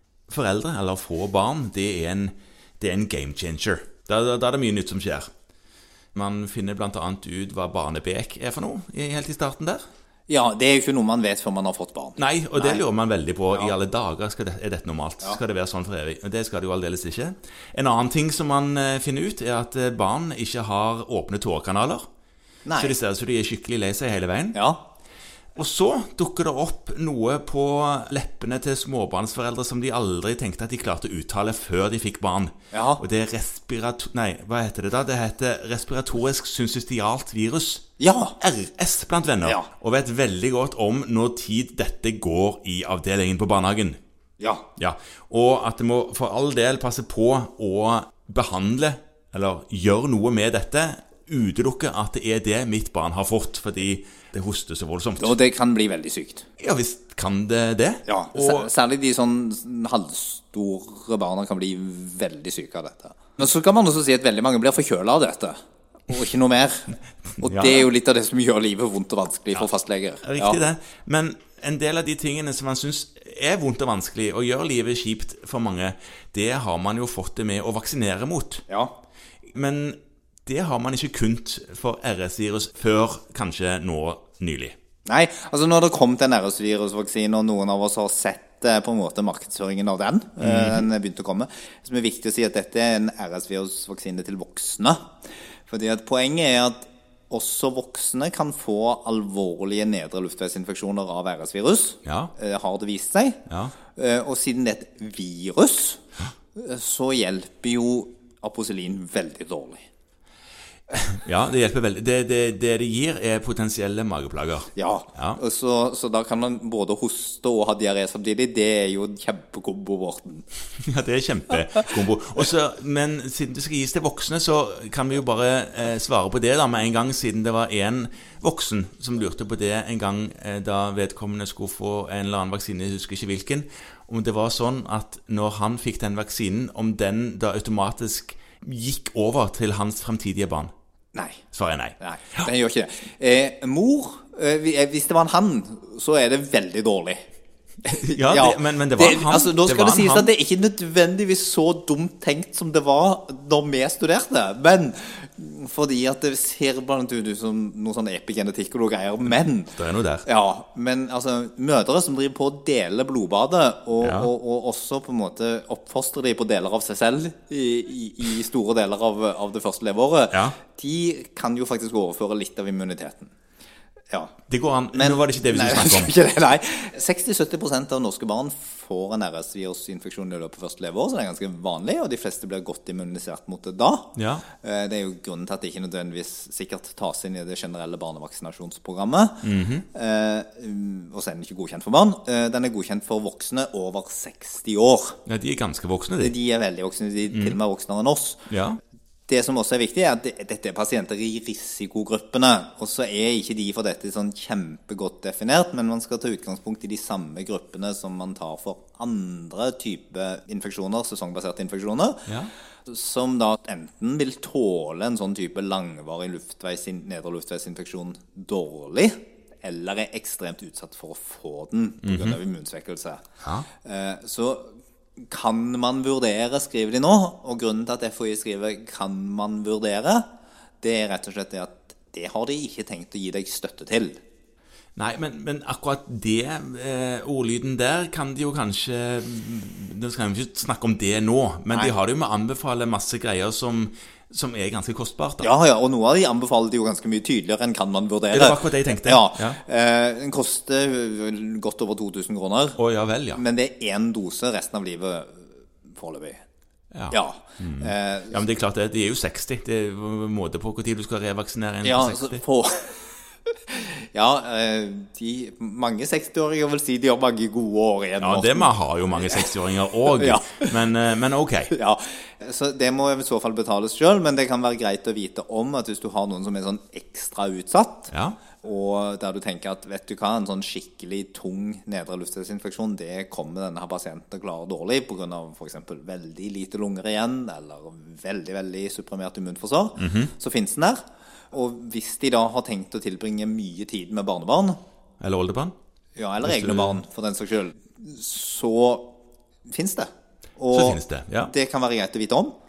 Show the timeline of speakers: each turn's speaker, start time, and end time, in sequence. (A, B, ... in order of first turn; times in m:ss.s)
0:00.3-0:05.3 A
0:06.1-0:09.8 A
0:10.3-0:12.8 B
0:12.2-0:22.0 A
0:22.6-0:23.0 B
0:22.8-0:24.6 A
0:24.5-0:24.8 B
0:25.6-0:37.8 A
0:32.7-0:33.0 B
0:38.0-0:38.4 B
0:38.4-0:44.0 A
0:44.4-0:44.6 B
0:44.8-0:55.4 A
0:55.2-0:56.4 B
0:56.6-0:58.7 A
0:58.0-1:05.6 B
1:06.1-1:10.6 B
1:07.4-1:07.9 A
1:10.2-1:18.6 A
1:19.5-1:24.7 A
1:25.0-1:35.1 B
1:30.4-1:30.8 A
1:35.7-1:43.4 B
1:42.0-1:42.3 A
1:43.5-1:43.7 A
1:43.9-1:46.0 B
1:46.5-1:49.8 B
1:50.9-1:55.4 A
1:54.7-2:00.4 B
2:00.8-2:20.7 A
2:21.1-2:21.4 B
2:21.5-2:22.5 A
2:22.0-2:27.2 B
2:27.8-2:53.3 B
2:28.0-2:30.3 A
2:39.8-2:40.2 A
2:44.0-2:44.3 A
2:50.3-2:50.6 A
2:54.5-2:56.1 A
2:54.9-3:15.2 B
3:04.1-3:04.4 A
3:09.4-3:09.8 A
3:15.2-3:16.3 A
3:16.2-3:18.5 B
3:17.3-3:17.6 A
3:18.5-3:18.8 A
3:19.3-3:32.3 B
3:32.3-3:32.5 A
3:32.8-3:43.2 B
3:42.0-3:42.4 A
3:43.8-3:50.3 B
3:50.8-3:54.2 B
3:55.0-4:05.5 A
4:05.4-4:12.8 B
4:08.3-4:09.6 A
4:12.8-4:13.4 A
4:13.3-4:16.4 B
4:16.9-4:22.4 A
4:17.1-4:18.4 B
4:21.8-4:23.0 B
4:23.7-4:29.5 B
4:28.2-4:31.7 A
4:30.1-4:30.8 B
4:31.7-4:54.8 B
4:38.1-4:38.4 A
4:50.0-4:50.3 A
4:55.2-4:55.7 A
4:56.2-5:02.5 B
4:56.4-4:57.0 A
5:00.7-5:01.5 A